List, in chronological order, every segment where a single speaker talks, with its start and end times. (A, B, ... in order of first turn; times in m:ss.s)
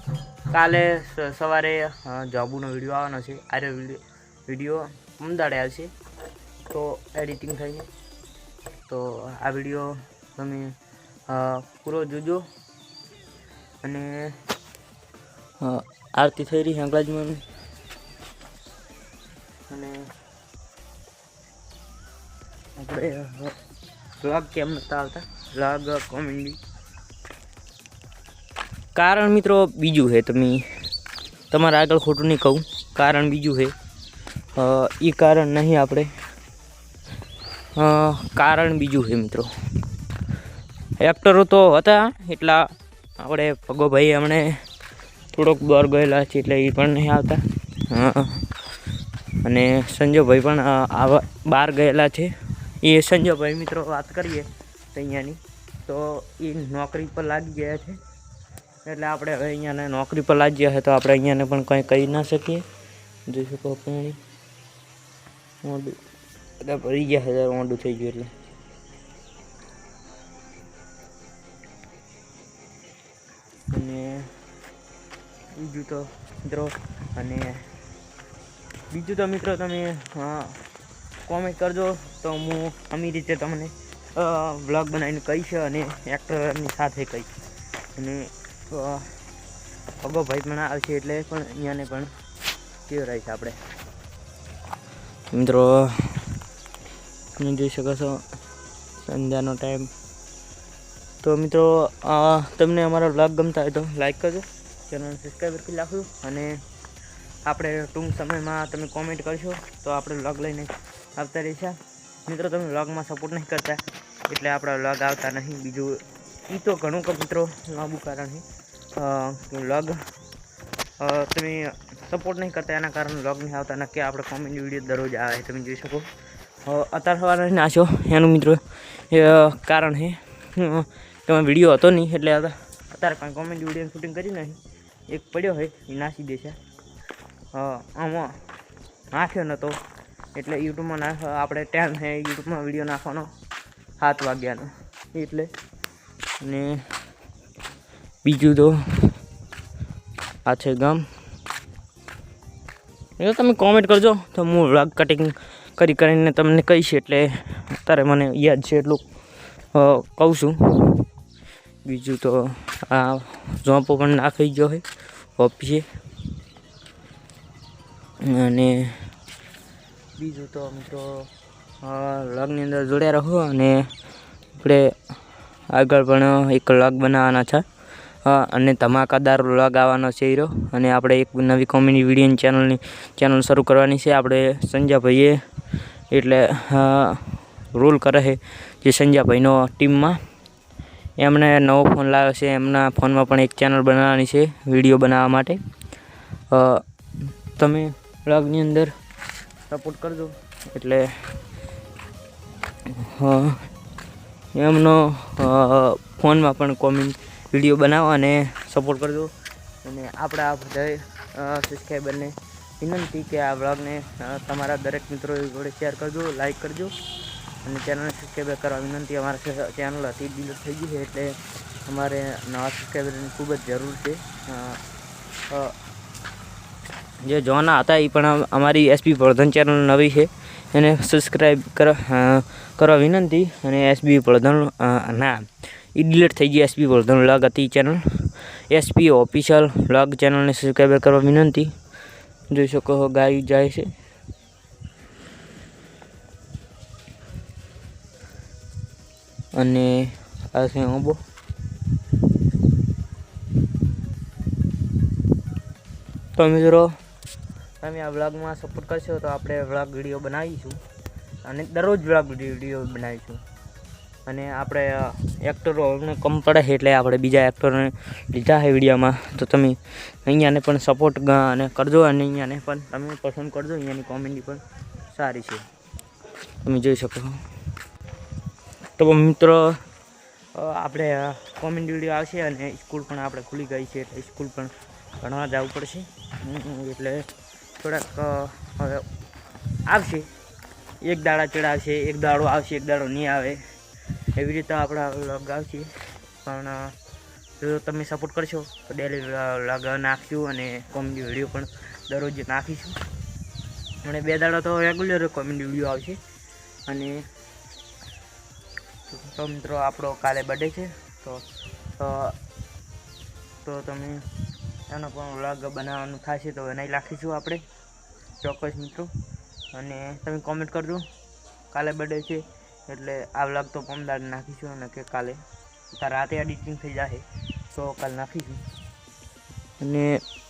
0:00.5-0:05.9 A
0:06.7-0:07.9 A
0:08.9-0:10.7 A
0:11.3-0:12.4 A
0:13.8-0:14.3 A
0:15.6-0:17.4 A
0:19.7-0:20.0 A
0:22.8-0:23.6 A
0:24.2-0:26.6 A
0:29.0-0:30.7 A
0:31.5-0:33.7 A
0:34.6-0:36.1 A
0:37.8-0:39.5 A
0:41.0-0:42.7 A
0:43.2-0:44.6 A
0:45.3-0:48.5 A
0:49.4-0:58.0 A
0:58.8-1:02.6 A
1:03.3-1:04.2 A
1:05.6-1:06.0 A
1:06.6-1:08.3 A
1:13.7-1:14.3 A
1:15.6-1:17.6 A
1:18.9-1:20.6 A
1:21.3-1:27.3 A
1:28.0-1:29.2 A
1:30.0-1:32.1 A
1:32.9-1:33.6 A
1:35.3-1:36.3 A
1:37.4-1:38.2 A
1:39.0-1:39.9 A
1:41.2-1:46.5 A
1:47.5-1:58.4 A
1:59.0-2:00.0 A
2:01.0-2:06.1 A
2:06.6-2:14.6 A
2:15.1-2:16.6 A
2:17.5-2:18.4 A
2:19.1-2:19.8 A
2:20.3-2:23.3 A
2:24.0-2:25.5 A
2:26.4-2:26.8 A
2:28.2-2:29.1 A
2:30.5-2:31.0 A
2:33.2-2:39.0 A
2:39.7-2:41.1 A
2:41.8-2:44.8 A
2:45.4-2:45.9 A
2:48.2-2:49.0 A
2:50.2-2:51.3 A
2:51.8-2:53.8 A
2:54.6-2:54.9 A
2:55.7-2:57.6 A
2:58.2-3:05.4 A
3:06.1-3:10.2 A
3:11.2-3:15.6 A
3:16.5-3:16.8 A
3:17.6-3:18.9 A
3:19.7-3:21.1 A
3:23.0-3:23.6 A
3:24.6-3:29.3 A
3:29.8-3:37.0 A
3:37.6-3:44.8 A
3:47.2-4:01.7 A
4:02.5-4:03.9 A
4:09.6-4:11.2 A
4:16.4-4:16.9 A
4:17.8-4:20.8 A
4:21.4-4:23.4 A
4:24.3-4:35.6 A
4:36.6-4:37.4 A
4:39.0-4:39.8 A
4:40.6-4:47.2 A
4:47.8-4:49.1 A
4:49.9-4:50.3 A
4:51.0-4:53.6 A
4:54.3-4:55.9 A
4:56.4-4:56.9 A
4:57.6-5:03.0 A
5:04.0-5:06.2 A
5:06.9-5:07.2 A
5:09.1-5:11.4 A
5:12.0-5:12.4 A
5:13.6-5:14.2 A
5:14.9-5:17.6 A
5:18.4-5:19.1 A
5:19.7-5:21.0 A
5:21.7-5:25.4 A
5:25.9-5:28.6 A
5:29.8-5:30.2 A